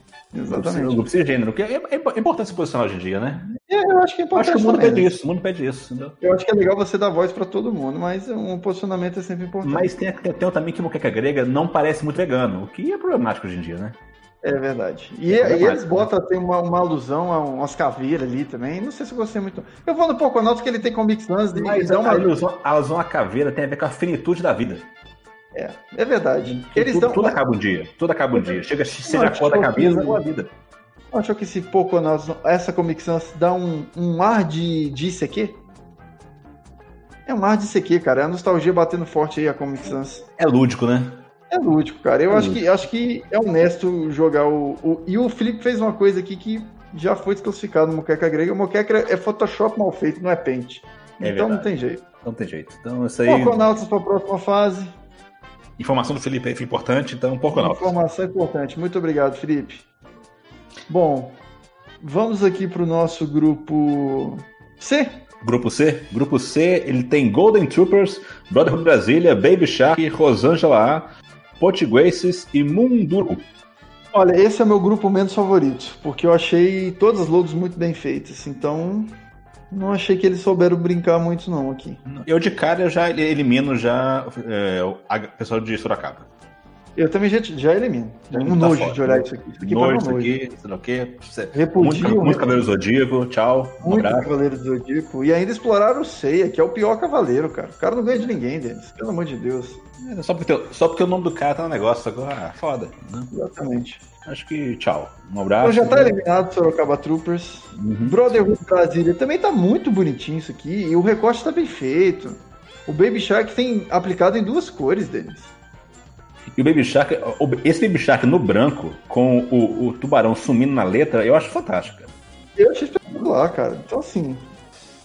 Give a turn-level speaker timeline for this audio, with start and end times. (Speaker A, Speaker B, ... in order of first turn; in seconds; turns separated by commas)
Speaker A: 0.3-1.1, Speaker B: 0.5-3.4, Speaker A: 3.5-5.1, Speaker B: 4.3-6.2, Speaker A: 6.2-9.9, Speaker B: 9.6-13.9, Speaker A: 14.4-22.3, Speaker B: 15.3-16.1, Speaker B: 21.6-24.9, Speaker A: 25.5-27.4, Speaker B: 26.4-30.5, Speaker A: 29.1-30.2, Speaker A: 31.1-35.6, Speaker A: 37.2-40.2, Speaker B: 40.4-41.2, Speaker A: 41.5-52.0, Speaker B: 42.3-42.6, Speaker B: 51.2-53.7, Speaker A: 53.2-54.9, Speaker B: 55.8-57.9, Speaker A: 57.5-59.9, Speaker A: 60.9-61.4, Speaker A: 62.0-65.2, Speaker B: 65.4-73.4, Speaker A: 74.1-79.1, Speaker A: 79.7-82.0, Speaker B: 82.0-86.3, Speaker A: 87.0-90.3, Speaker B: 88.3-94.3, Speaker A: 91.5-92.6, Speaker A: 93.8-99.8, Speaker B: 100.0-103.3, Speaker A: 103.3-104.0, Speaker B: 104.2-106.2, Speaker A: 105.6-115.5, Speaker B: 107.8-108.2, Speaker B: 116.5-122.1, Speaker A: 122.6-124.5